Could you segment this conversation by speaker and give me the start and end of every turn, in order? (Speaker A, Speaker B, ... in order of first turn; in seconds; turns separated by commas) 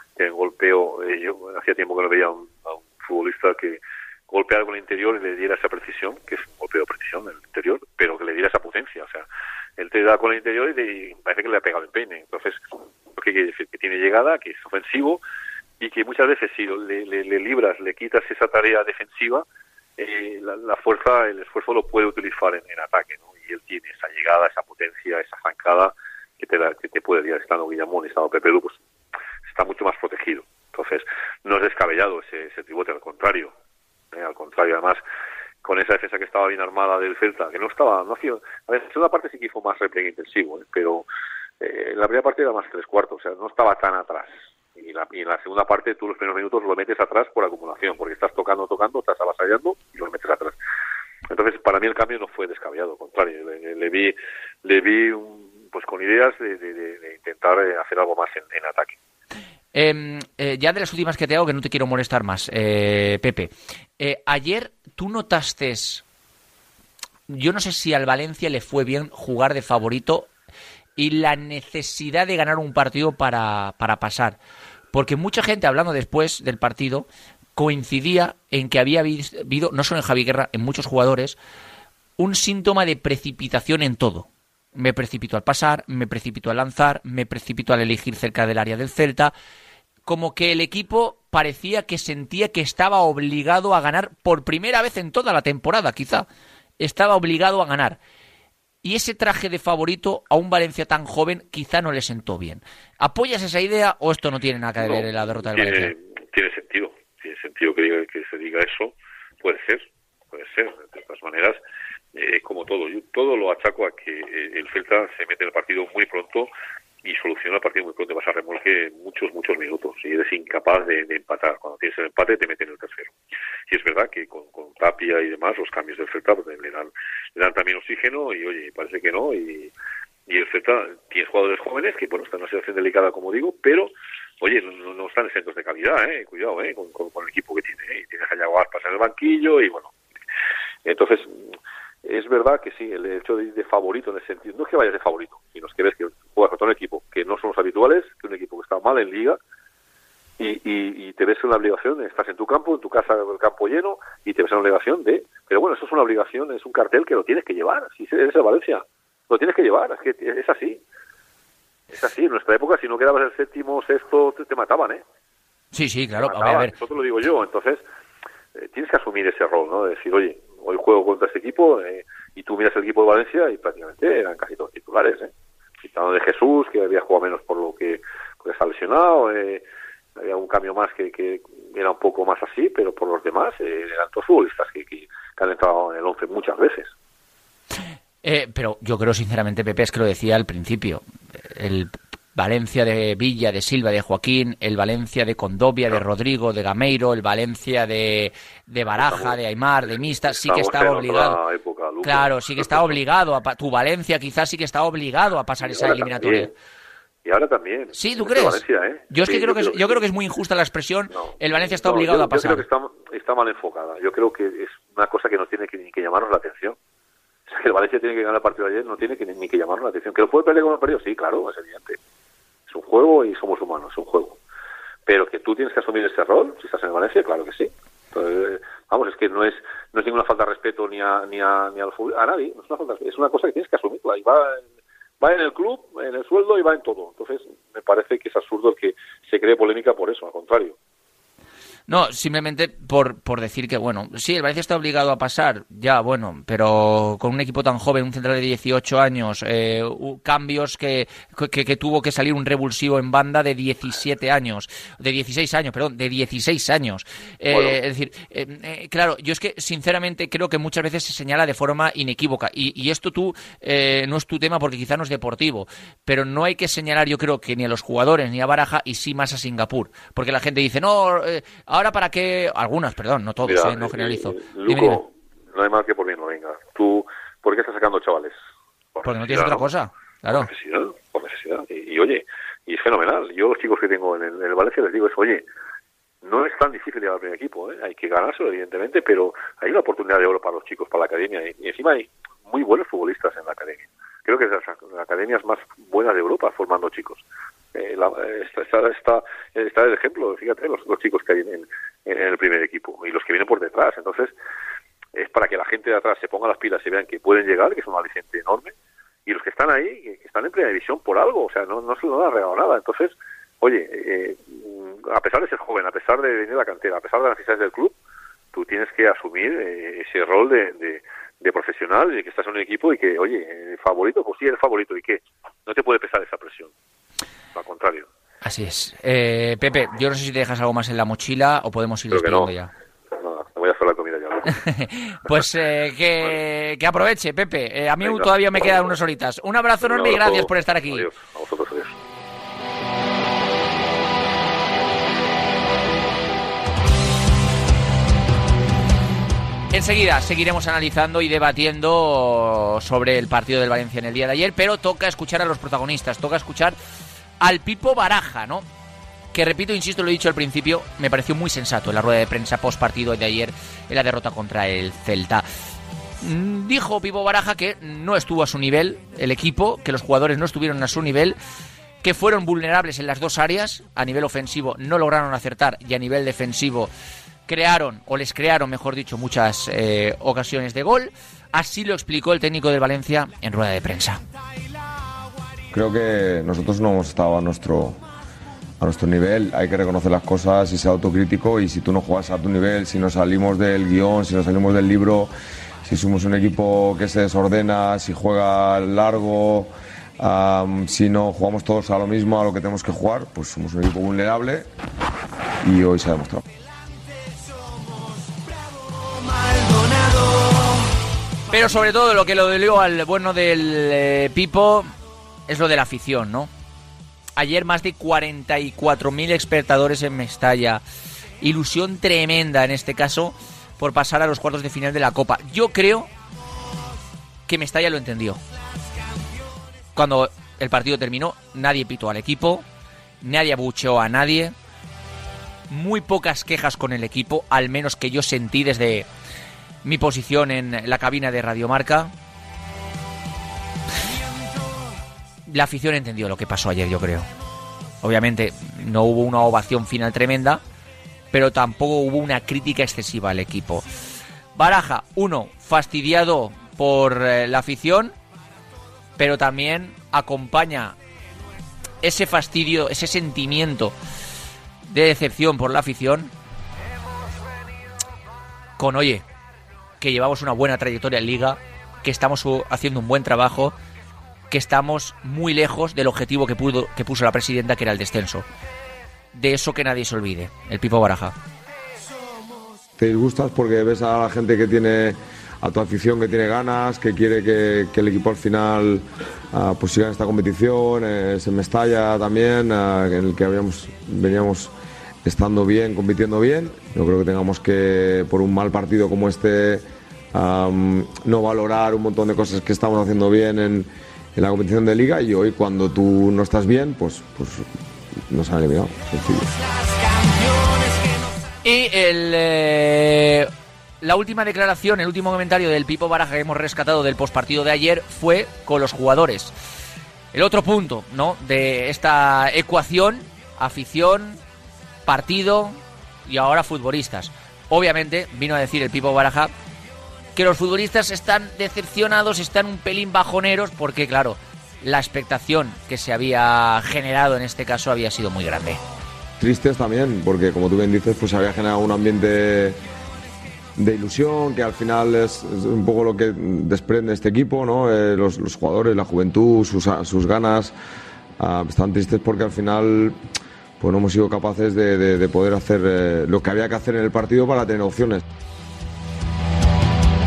Speaker A: 0.1-9.2, Speaker A: 9.8-15.2, Speaker A: 15.8-19.4, Speaker A: 20.0-28.8, Speaker A: 29.4-33.5, Speaker A: 34.1-35.0, Speaker A: 35.6-41.0, Speaker A: 41.6-50.5, Speaker A: 51.3-59.0, Speaker B: 59.7-66.0, Speaker B: 67.3-70.3, Speaker B: 71.0-74.4, Speaker B: 74.9-81.4, Speaker B: 82.2-89.3, Speaker B: 90.0-96.3, Speaker B: 96.8-98.0, Speaker B: 98.8-105.9, Speaker A: 104.8-111.6, Speaker A: 112.1-116.5, Speaker A: 117.0-123.1, Speaker A: 123.7-129.7, Speaker A: 130.3-139.9, Speaker A: 140.8-141.5, Speaker A: 142.0-149.4, Speaker A: 150.4-160.8, Speaker A: 161.9-165.0, Speaker B: 165.7-166.7, Speaker A: 166.2-167.8, Speaker A: 168.5-175.3, Speaker A: 175.8-179.6, Speaker A: 180.2-186.9, Speaker B: 188.2-201.4, Speaker A: 198.9-203.0, Speaker B: 202.0-206.5, Speaker A: 205.6-206.5, Speaker A: 207.2-210.0, Speaker B: 207.9-212.7, Speaker A: 211.1-216.8, Speaker A: 217.5-222.0, Speaker A: 222.7-224.4, Speaker A: 225.1-234.6, Speaker A: 235.2-240.8, Speaker B: 241.9-275.0, Speaker A: 257.5-257.8, Speaker A: 273.4-278.4, Speaker A: 278.9-279.7, Speaker B: 279.0-280.5, Speaker A: 280.3-285.4, Speaker A: 286.2-297.2, Speaker A: 297.7-304.3, Speaker A: 305.1-308.7, Speaker A: 309.2-317.9, Speaker A: 318.5-326.7, Speaker A: 327.5-328.1, Speaker B: 328.4-332.7, Speaker A: 332.1-332.5, Speaker A: 333.1-334.6, Speaker B: 334.5-341.1, Speaker A: 338.0-339.0, Speaker A: 339.8-341.9, Speaker B: 349.7-356.8, Speaker B: 357.4-358.6, Speaker B: 359.3-365.4, Speaker B: 366.2-371.4, Speaker B: 372.0-376.9, Speaker B: 377.5-384.2, Speaker C: 385.7-388.0, Speaker C: 388.8-395.3, Speaker C: 395.9-404.7, Speaker C: 405.6-406.4, Speaker B: 411.5-414.9, Speaker B: 415.5-416.5, Speaker B: 417.4-420.8, Speaker B: 421.4-426.1, Speaker B: 427.5-428.4, Speaker B: 429.9-432.6, Speaker B: 433.2-434.5, Speaker B: 435.7-439.1, Speaker B: 439.8-442.1, Speaker B: 445.5-447.3, Speaker B: 448.0-450.6, Speaker B: 451.3-453.8, Speaker B: 454.6-458.1, Speaker B: 459.2-460.9, Speaker B: 462.0-463.9, Speaker B: 464.9-466.3, Speaker B: 468.8-469.2, Speaker B: 470.0-473.7, Speaker B: 474.5-478.4, Speaker B: 479.3-481.3, Speaker C: 483.0-494.7, Speaker C: 495.2-499.8, Speaker C: 500.3-509.5, Speaker B: 511.6-513.5, Speaker B: 514.0-519.5, Speaker B: 520.3-524.4, Speaker B: 525.0-529.5, Speaker B: 530.3-538.8, Speaker C: 539.4-542.8, Speaker C: 543.8-550.7, Speaker C: 551.4-553.2, Speaker C: 553.8-558.2